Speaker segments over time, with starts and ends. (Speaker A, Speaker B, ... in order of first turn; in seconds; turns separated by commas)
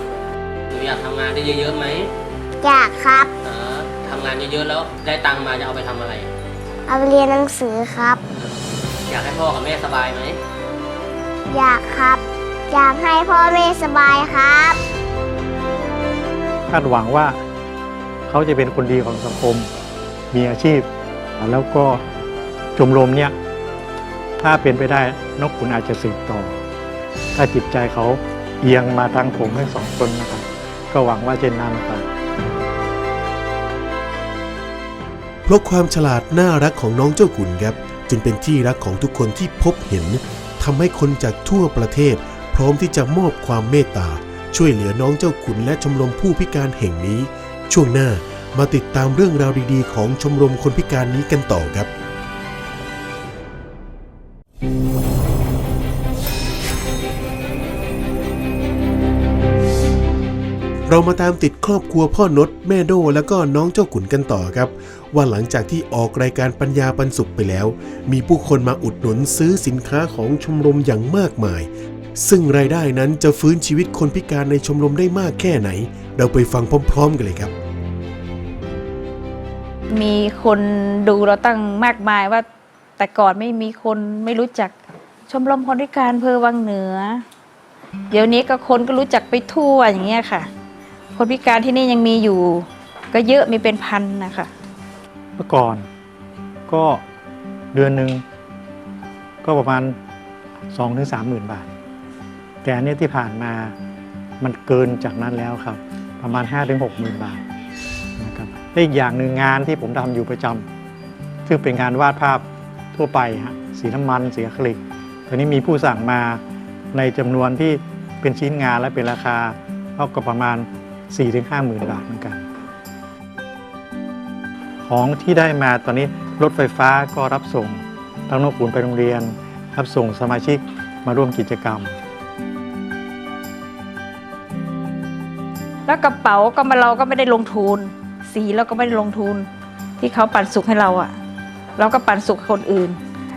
Speaker A: 0.7-2.1, Speaker B: 2.6-3.3, Speaker A: 3.4-6.3, Speaker B: 6.9-8.2, Speaker A: 8.3-10.4, Speaker B: 11.5-14.8, Speaker C: 16.7-17.4, Speaker C: 18.3-19.7, Speaker C: 20.3-22.0, Speaker C: 22.8-23.4, Speaker C: 24.4-26.6, Speaker C: 27.3-32.1, Speaker D: 35.5-51.9, Speaker D: 60.9-77.5, Speaker E: 79.9-82.5, Speaker E: 83.0-84.7, Speaker E: 85.3-87.2, Speaker E: 88.1-90.5, Speaker E: 91.1-94.5, Speaker C: 95.4-95.9, Speaker C: 96.7-97.0, Speaker C: 97.7-98.2, Speaker C: 99.4-100.0, Speaker C: 100.7-101.7, Speaker C: 102.6-103.7, Speaker C: 104.4-107.4, Speaker C: 108.2-110.7, Speaker C: 111.4-116.4, Speaker C: 116.9-122.5, Speaker C: 124.8-131.9, Speaker E: 135.9-139.5, Speaker E: 140.0-141.1, Speaker E: 141.8-143.0